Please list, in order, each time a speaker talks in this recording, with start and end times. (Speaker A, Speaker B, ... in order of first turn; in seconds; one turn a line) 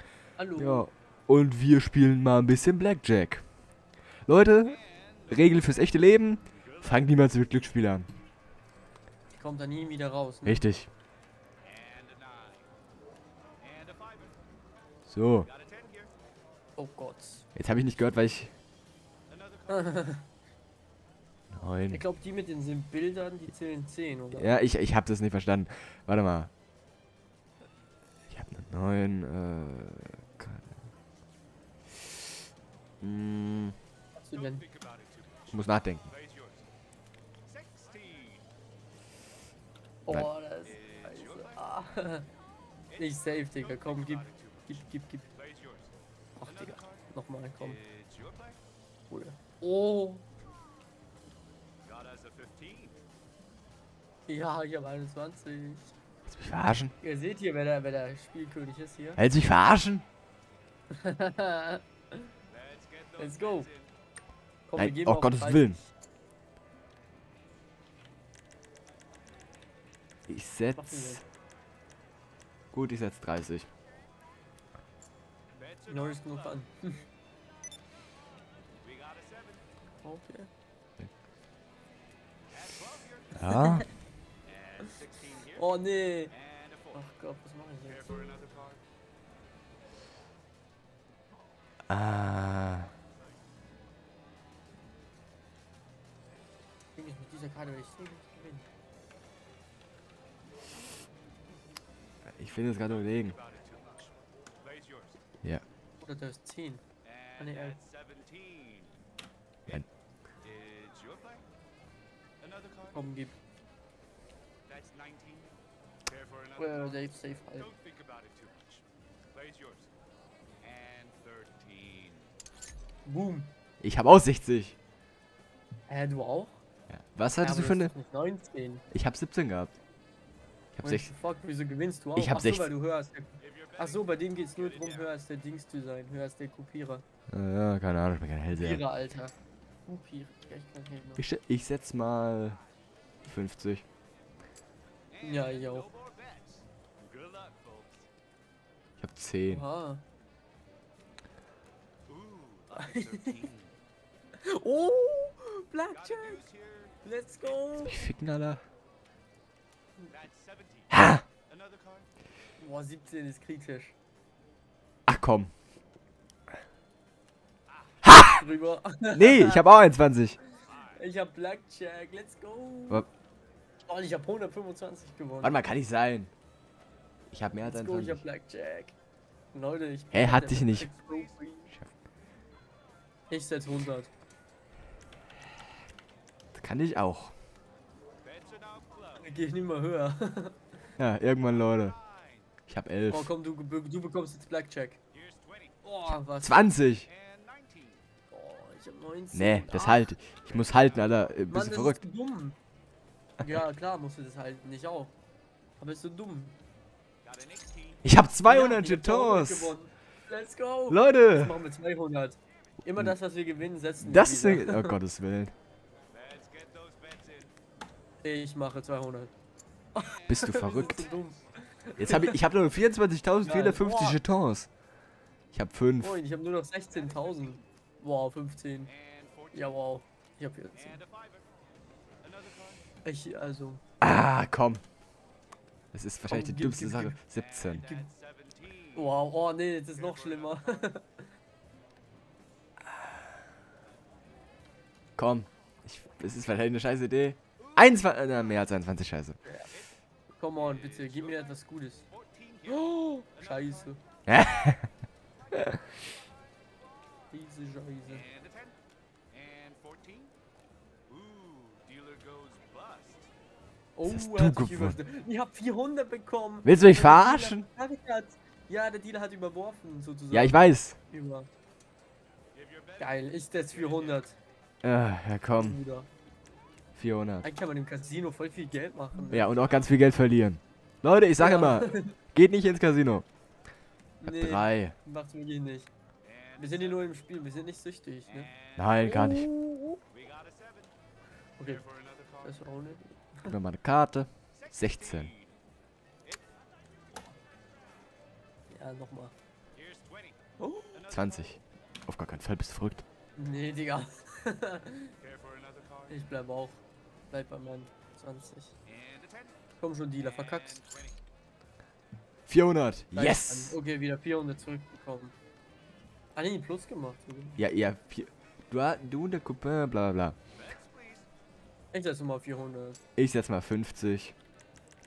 Speaker A: 0.4-0.9
Speaker B: 0.6-3.4
Speaker B: 4.3-8.1
Speaker A: 9.3-10.7
Speaker B: 10.4-10.9
Speaker B: 15.1-15.5
Speaker A: 16.8-17.5
Speaker B: 17.6-18.5
Speaker A: 19.7-20.3
Speaker B: 21.5-22.0
Speaker A: 21.9-24.5
Speaker B: 24.3-26.5
Speaker B: 28.3-30.8
Speaker B: 33.0-33.8
Speaker A: 34.1-34.7
Speaker B: 35.5-36.1
Speaker A: 40.1-42.3
Speaker A: 42.9-45.3
Speaker A: 46.4-47.8
Speaker A: 49.1-50.2
Speaker A: 54.3-55.9
Speaker B: 56.3-57.0
Speaker A: 57.0-59.2
Speaker B: 59.2-60.1
Speaker A: 60.9-62.3
Speaker A: 63.2-63.7
Speaker A: 64.7-65.8
Speaker B: 64.8-65.8
Speaker B: 70.3-71.2
Speaker A: 70.8-71.2
Speaker B: 72.7-73.7
Speaker A: 75.8-77.0
Speaker A: 80.0-80.5
Speaker B: 83.3-83.9
Speaker A: 83.4-83.8
Speaker A: 84.8-86.4
Speaker A: 86.9-88.3
Speaker B: 91.9-92.9
Speaker A: 97.0-98.7
Speaker B: 102.3-103.4
Speaker A: 106.0-106.8
Speaker A: 107.4-107.8
Speaker A: 112.9-113.4
Speaker A: 116.6-117.8
Speaker A: 123.0-123.5
Speaker B: 123.8-124.8
Speaker A: 125.9-126.6
Speaker B: 126.9-127.9
Speaker A: 127.4-128.8
Speaker B: 128.9-129.7
Speaker B: 130.7-131.1
Speaker A: 130.8-137.1
Speaker B: 132.2-132.7
Speaker B: 137.3-138.8
Speaker A: 138.6-139.3
Speaker A: 139.9-141.2
Speaker B: 141.2-142.6
Speaker B: 143.2-143.9
Speaker A: 145.2-145.9
Speaker B: 149.0-149.6
Speaker A: 149.5-150.0
Speaker A: 152.7-153.5
Speaker A: 154.4-156.5
Speaker A: 157.0-158.0
Speaker B: 157.8-158.6
Speaker B: 160.9-161.3
Speaker A: 162.6-164.0
Speaker B: 165.1-165.5
Speaker B: 168.0-168.4
Speaker A: 168.3-169.6
Speaker B: 169.1-170.4
Speaker A: 170.8-173.1
Speaker A: 173.8-175.6
Speaker B: 175.4-176.3
Speaker B: 177.3-178.2
Speaker A: 177.6-178.9
Speaker A: 179.5-181.7
Speaker B: 180.1-180.9
Speaker A: 183.3-184.1
Speaker B: 186.5-187.3
Speaker A: 189.1-190.6
Speaker B: 191.0-192.0
Speaker B: 192.7-193.3
Speaker A: 193.1-195.0
Speaker A: 195.8-196.7
Speaker B: 196.4-197.1
Speaker A: 198.3-200.1
Speaker B: 199.3-202.0
Speaker A: 201.5-202.6
Speaker A: 203.4-205.1
Speaker A: 205.8-206.6
Speaker B: 208.0-209.8
Speaker A: 208.4-215.0
Speaker B: 210.9-211.6
Speaker B: 214.0-215.5
Speaker A: 218.2-219.3
Speaker A: 219.9-222.4
Speaker B: 220.3-221.1
Speaker B: 222.0-224.7
Speaker A: 223.4-224.2
Speaker B: 225.5-226.2
Speaker A: 226.0-228.9
Speaker A: 229.5-231.1
Speaker A: 233.0-233.8
Speaker B: 234.0-234.8
Speaker B: 235.9-237.8
Speaker A: 236.3-237.2
Speaker A: 237.8-238.1
Speaker A: 238.9-241.3
Speaker B: 245.2-249.4
Speaker A: 249.5-249.7
Speaker A: 250.3-252.1
Speaker A: 252.7-254.0
Speaker B: 254.3-254.9
Speaker B: 255.5-255.8
Speaker A: 257.3-258.3
Speaker A: 264.0-271.5
Speaker B: 264.1-265.0
Speaker B: 266.6-267.7
Speaker B: 270.3-271.0
Speaker A: 273.0-274.4
Speaker B: 274.8-275.8
Speaker A: 275.6-276.1
Speaker B: 276.9-277.5
Speaker A: 277.4-279.6
Speaker B: 279.3-283.3
Speaker A: 281.4-282.2
Speaker A: 284.2-285.9
Speaker B: 284.2-284.9
Speaker A: 286.6-290.0
Speaker B: 288.8-289.5
Speaker A: 291.6-293.6
Speaker B: 293.4-295.3
Speaker A: 298.7-299.4
Speaker A: 300.6-301.1
Speaker B: 301.1-303.0
Speaker A: 303.4-305.2
Speaker A: 306.1-308.8
Speaker A: 309.8-310.9
Speaker B: 312.5-313.8
Speaker A: 313.1-315.4
Speaker A: 316.4-317.6
Speaker B: 317.6-320.4
Speaker A: 321.9-323.0
Speaker B: 323.2-324.4